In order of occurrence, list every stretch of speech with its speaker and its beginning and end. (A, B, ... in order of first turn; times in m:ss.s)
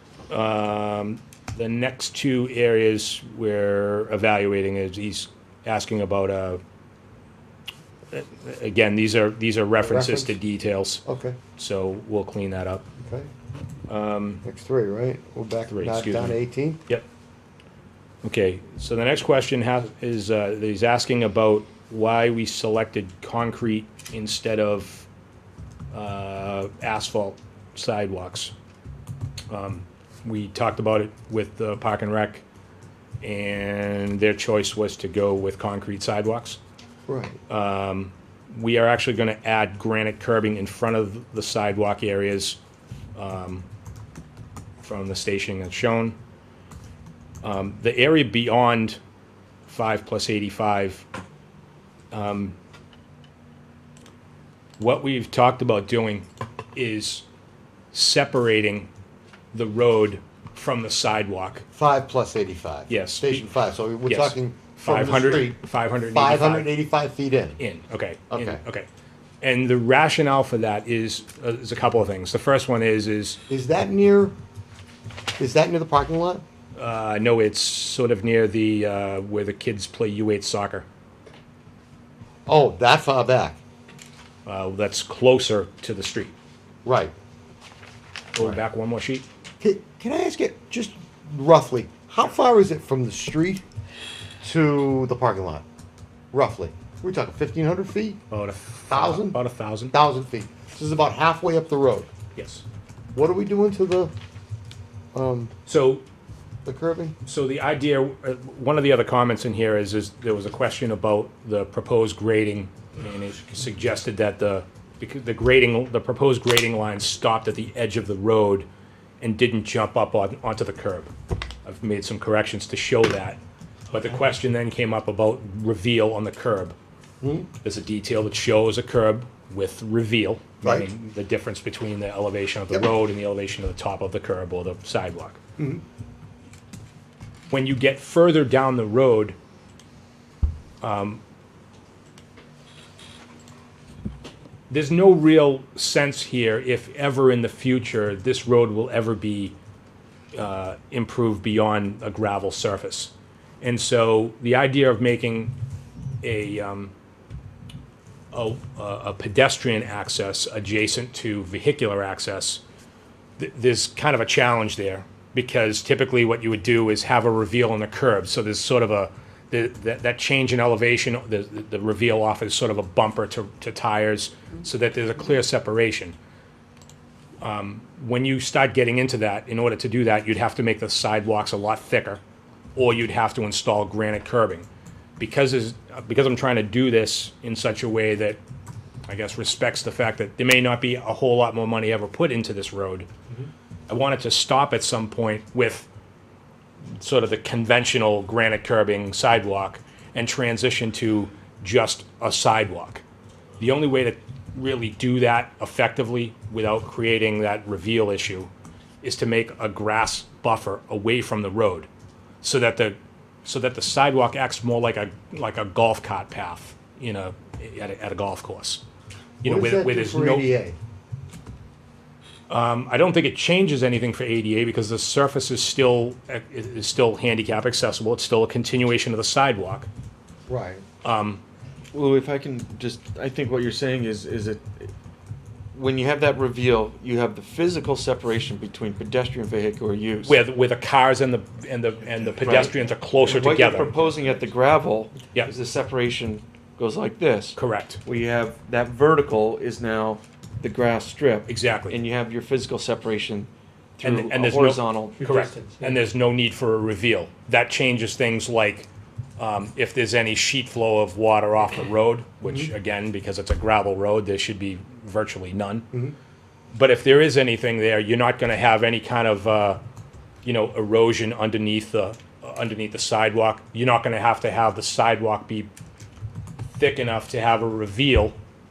0:00.3-0:06.6 A
0:08.1-0:11.0 A
0:09.8-0:10.4 B
0:11.0-0:11.4 B
0:11.6-0:12.8 A
0:13.0-0:13.3 B
0:13.9-0:14.4 A
0:14.4-0:16.8 B
0:15.7-0:17.0 A
0:18.2-0:25.1 A
0:25.9-0:28.5 A
0:29.5-0:32.4 A
0:33.2-0:36.6 A
0:37.1-0:37.4 B
0:37.5-0:42.6 A
0:43.2-0:43.6 A
0:44.8-0:46.2 A
0:47.4-0:49.0 A
0:49.6-0:51.0 A
0:52.1-0:52.6 A
0:54.8-0:57.2 A
0:57.9-0:58.9 A
0:59.5-1:01.6 A
1:01.7-1:05.6 B
1:02.9-1:03.5 A
1:04.0-1:06.7 A
1:06.1-1:07.6 B
1:07.6-1:08.9 A
1:08.3-1:08.6 B
1:09.4-1:13.4 A
1:13.5-1:14.3 B
1:15.4-1:16.4 B
1:16.8-1:20.8 A
1:22.4-1:23.6 B
1:24.4-1:26.3 A
1:26.8-1:27.1 B
1:28.3-1:29.2 A
1:29.6-1:33.6 B
1:34.4-1:35.6 B
1:36.3-1:38.2 B
1:38.3-1:39.9 A
1:38.9-1:39.4 B
1:39.9-1:42.1 B
1:42.3-1:42.6 A
1:43.1-1:44.1 B
1:45.1-1:45.5 B
1:45.6-1:46.0 A
1:46.6-1:47.2 B
1:47.2-1:58.7 A
1:59.2-2:01.1 A
2:01.6-2:03.4 A
2:03.9-2:06.8 A
2:07.2-2:07.5 B
2:07.6-2:15.4 A
2:10.6-2:10.9 B
2:17.5-2:19.4 A
2:20.8-2:21.2 A
2:24.7-2:29.6 A
2:30.3-2:35.5 A
2:36.2-2:36.9 A
2:38.3-2:42.6 A
2:43.4-2:56.1 A
2:57.4-3:02.2 A
3:02.8-3:04.6 A
3:05.2-3:08.4 A
3:09.1-3:13.1 A
3:13.9-3:15.9 A
3:17.0-3:23.0 A
3:23.6-3:28.5 A
3:29.0-3:31.9 A
3:32.4-3:38.8 A
3:39.4-3:40.5 A
3:39.4-3:40.8 B
3:42.5-3:49.9 A
3:50.5-3:50.8 B
3:51.0-3:51.4 A
3:51.9-3:54.9 C
3:55.7-4:00.4 C
4:00.2-4:03.9 A
4:02.4-4:15.3 C
4:07.5-4:08.0 A
4:11.5-4:12.0 A
4:14.0-4:25.9 A
4:15.2-4:15.9 B
4:26.7-4:29.8 A
4:30.4-4:35.7 A
4:36.7-4:38.4 A